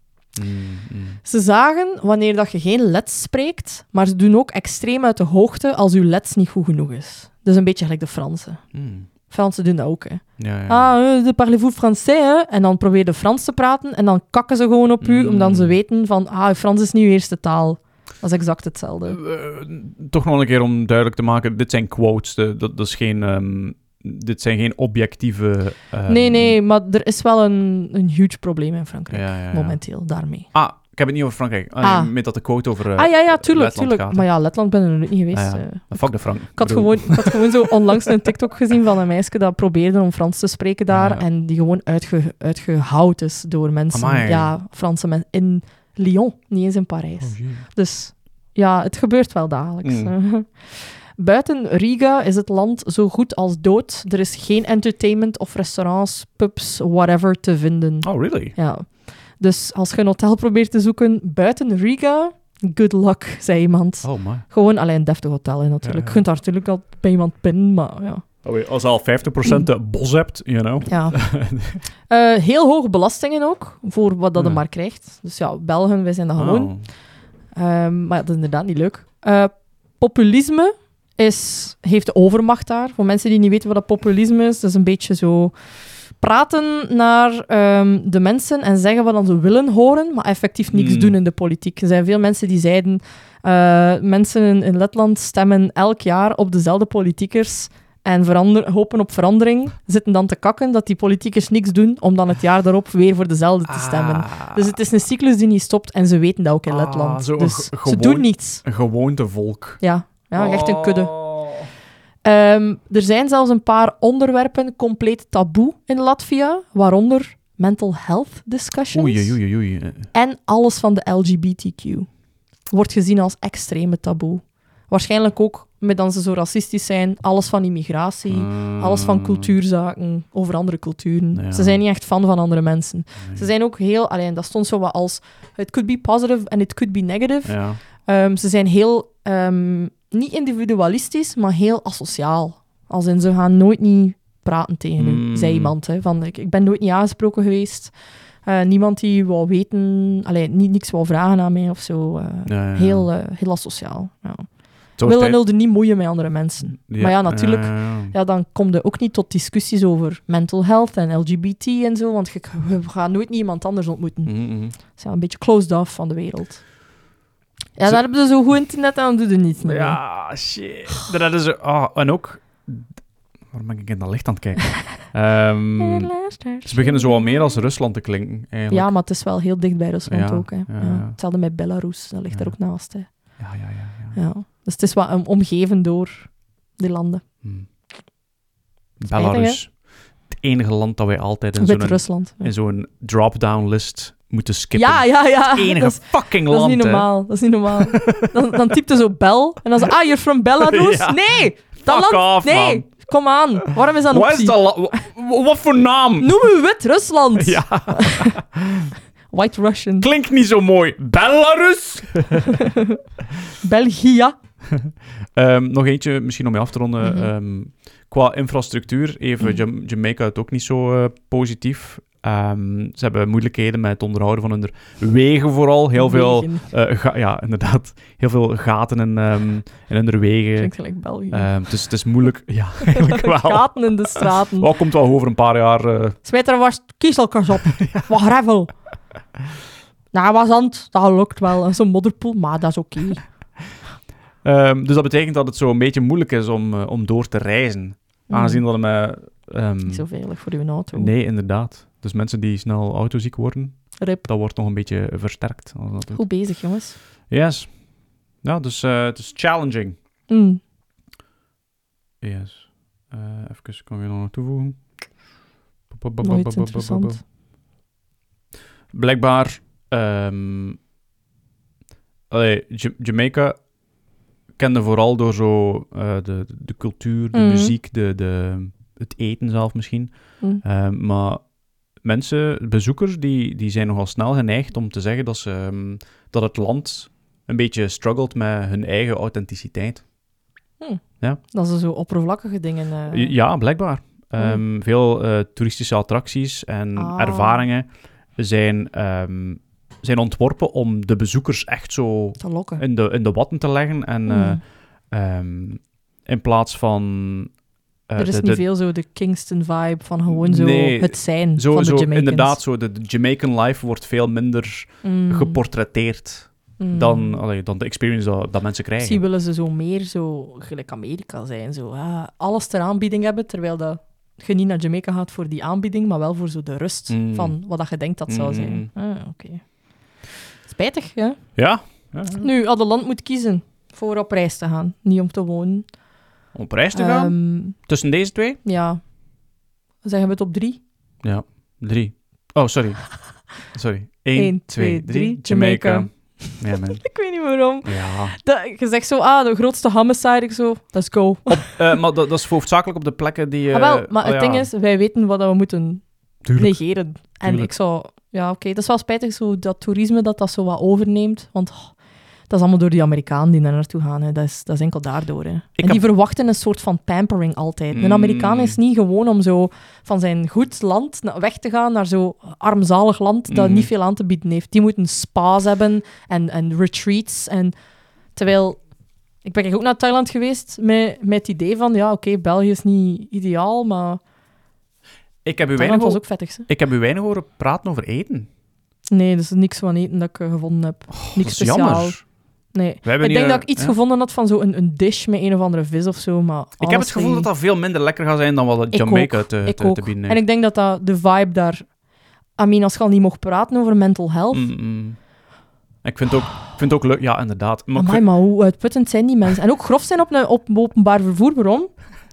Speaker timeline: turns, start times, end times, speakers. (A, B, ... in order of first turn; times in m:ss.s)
0:00.3-0:01.2 A
0:01.2-0:08.6 B
0:08.7-0:09.1 A
0:09.3-0:19.2 B
0:10.4-0:10.9 A
0:15.0-0:15.8 A
0:19.1-0:26.6 A
0:26.1-0:30.5 B
0:29.1-0:29.8 A
0:30.5-0:34.2 A
0:31.8-0:32.1 B
0:32.9-1:08.2 B
0:35.3-0:37.5 A
0:40.9-0:41.2 A
0:43.9-0:44.5 A
0:47.2-0:47.7 A
0:49.8-0:50.1 A
0:58.0-0:58.6 A
1:04.0-1:04.5 A
1:05.8-1:06.2 A
1:08.4-1:11.8 A
1:10.9-1:11.4 B
1:12.1-1:17.0 B
1:14.4-1:14.6 A
1:16.4-1:16.9 A
1:17.5-1:25.6 B
1:26.2-1:48.6 B
1:30.7-1:31.2 A
1:43.7-1:44.8 A
1:46.7-1:49.8 A
1:49.8-1:51.2 B
1:50.4-1:51.7 A
1:52.2-1:59.4 B
1:58.9-2:00.1 A
2:00.1-2:02.1 B
2:02.6-2:46.6 B
2:08.3-2:09.5 A
2:11.3-2:11.8 A
2:17.4-2:17.8 A
2:25.0-2:25.8 A
2:32.5-2:33.1 A
2:35.0-2:35.4 A
2:36.7-2:38.1 A
2:44.2-2:44.8 A
2:47.8-2:50.0 B
2:49.6-2:59.0 A
2:55.8-2:57.6 B
2:58.7-3:03.4 B
3:00.1-3:01.2 A
3:02.3-3:02.6 A
3:03.4-3:04.2 A
3:04.1-3:07.2 B
3:09.0-3:17.1 A
3:09.1-3:09.6 B
3:11.6-3:12.5 B
3:14.8-3:25.0 B
3:17.8-3:18.3 A
3:20.6-3:22.9 A
3:24.1-3:26.4 A
3:26.2-3:28.4 B
3:27.4-3:28.9 A
3:29.3-3:30.1 B
3:30.0-3:32.6 A
3:32.6-3:33.0 B
3:33.6-3:34.3 B
3:34.7-3:50.7 A
3:37.0-3:37.3 B
3:46.0-3:46.6 B
3:50.6-3:51.5 B
3:51.3-3:56.2 A
3:52.9-3:54.7 B
3:56.2-3:58.7 B
3:57.8-3:58.1 A
4:00.1-4:03.3 B
4:04.4-4:10.1 A
4:08.3-4:08.6 B
4:09.8-4:11.1 B
4:10.9-4:16.3 A
4:14.0-4:14.3 B
4:16.1-4:17.0 B
4:17.3-4:17.8 A
4:18.4-4:20.0 A
4:20.3-4:20.6 B
4:22.2-4:24.8 A
4:25.9-4:27.2 A
4:26.2-4:27.2 B
4:28.9-4:30.8 A
4:32.3-4:33.7 A
4:34.6-4:50.1 A
4:37.3-4:37.8 B
4:50.8-4:53.4 B
4:53.1-5:07.6 A
4:57.0-4:57.6 B
5:02.4-5:02.8 B
5:04.3-5:04.6 B
5:08.1-5:08.6 A
5:08.2-5:12.6 B
5:10.3-5:19.2 A
5:15.0-5:15.6 B
5:16.8-5:17.4 B
5:19.0-5:29.8 B
5:27.1-5:28.9 A
5:30.7-5:35.9 B
5:31.6-5:32.5 A
5:36.5-5:38.6 A
5:36.9-5:37.8 B
5:38.6-5:39.1 B
5:40.0-5:40.8 B
5:41.2-5:47.2 A
5:44.4-5:51.8 B
5:47.8-5:48.4 A
5:51.5-5:54.7 A
5:53.7-6:02.0 B
5:56.4-5:57.7 A
6:02.5-6:17.7 B
6:07.9-6:08.8 A
6:13.5-6:13.9 A
6:18.3-6:18.9 B
6:19.4-6:24.2 B
6:25.4-6:28.5 A
6:25.8-6:26.7 B
6:29.1-6:32.2 B
6:31.1-6:32.2 A
6:32.7-6:37.5 B
6:33.0-6:34.0 A
6:36.8-6:40.4 A
6:38.9-6:41.9 B
6:42.6-6:44.7 B
6:44.5-6:45.2 A
6:46.0-6:48.3 A
6:48.0-6:52.0 B